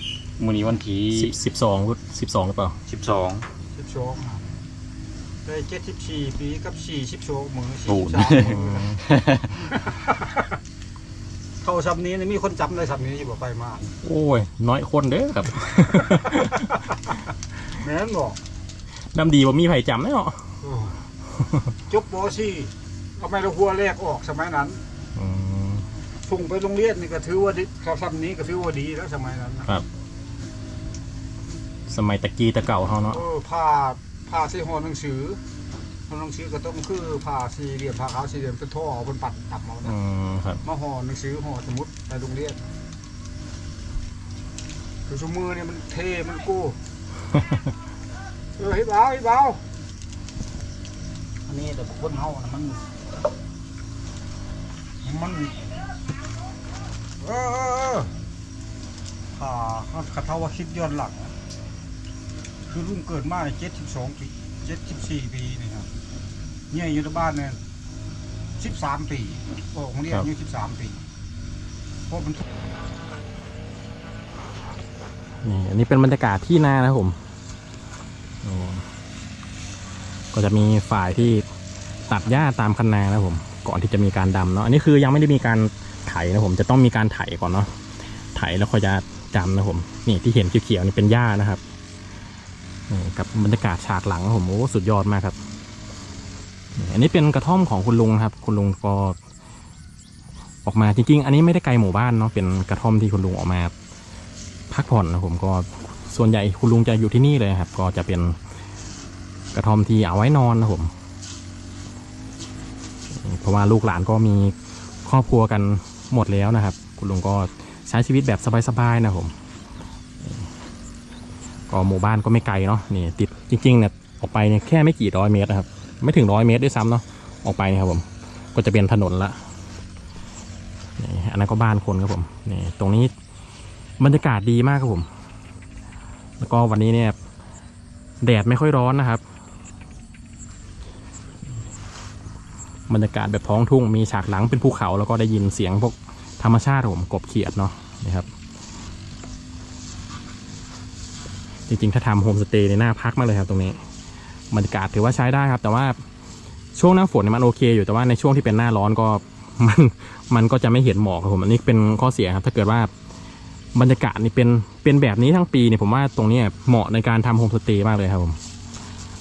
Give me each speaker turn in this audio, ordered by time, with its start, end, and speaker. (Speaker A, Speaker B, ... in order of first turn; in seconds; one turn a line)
Speaker A: 0.4-1.3
Speaker B: 1.1-2.8
Speaker A: 2.9-3.5
Speaker C: 3.7-4.5
Speaker C: 5.4-8.6
Speaker A: 7.9-9.5
Speaker B: 8.4-9.0
Speaker C: 11.6-13.9
Speaker B: 14.0-16.7
Speaker C: 17.7-18.4
Speaker B: 19.1-20.4
Speaker C: 20.6-20.9
Speaker C: 21.9-24.8
Speaker B: 25.1-25.9
Speaker C: 26.2-29.7
Speaker B: 31.9-33.2
Speaker C: 33.1-35.4
Speaker C: 36.1-39.9
Speaker B: 39.8-40.6
Speaker C: 40.6-42.6
Speaker C: 45.1-46.8
Speaker C: 48.6-49.6
Speaker C: 51.5-52.9
Speaker C: 55.0-55.6
Speaker C: 57.2-58.1
Speaker C: 59.3-61.3
Speaker C: 62.7-65.9
Speaker C: 66.7-67.6
Speaker C: 68.6-71.0
Speaker C: 72.1-72.4
Speaker B: 75.4-77.2
Speaker B: 78.4-78.8
Speaker B: 80.3-81.4
Speaker B: 82.1-87.7
Speaker B: 88.3-91.6
Speaker B: 92.9-95.4
Speaker B: 96.8-99.2
Speaker B: 100.6-103.7
Speaker B: 104.7-108.4
Speaker B: 109.5-110.9
Speaker B: 113.1-119.3
Speaker B: 121.7-129.4
Speaker B: 131.0-133.1
Speaker B: 134.0-135.1
Speaker B: 136.4-137.2
Speaker B: 138.2-139.2
Speaker B: 142.9-148.3
Speaker B: 151.7-153.8
Speaker B: 154.5-156.0
Speaker B: 156.8-162.9
Speaker B: 163.8-168.4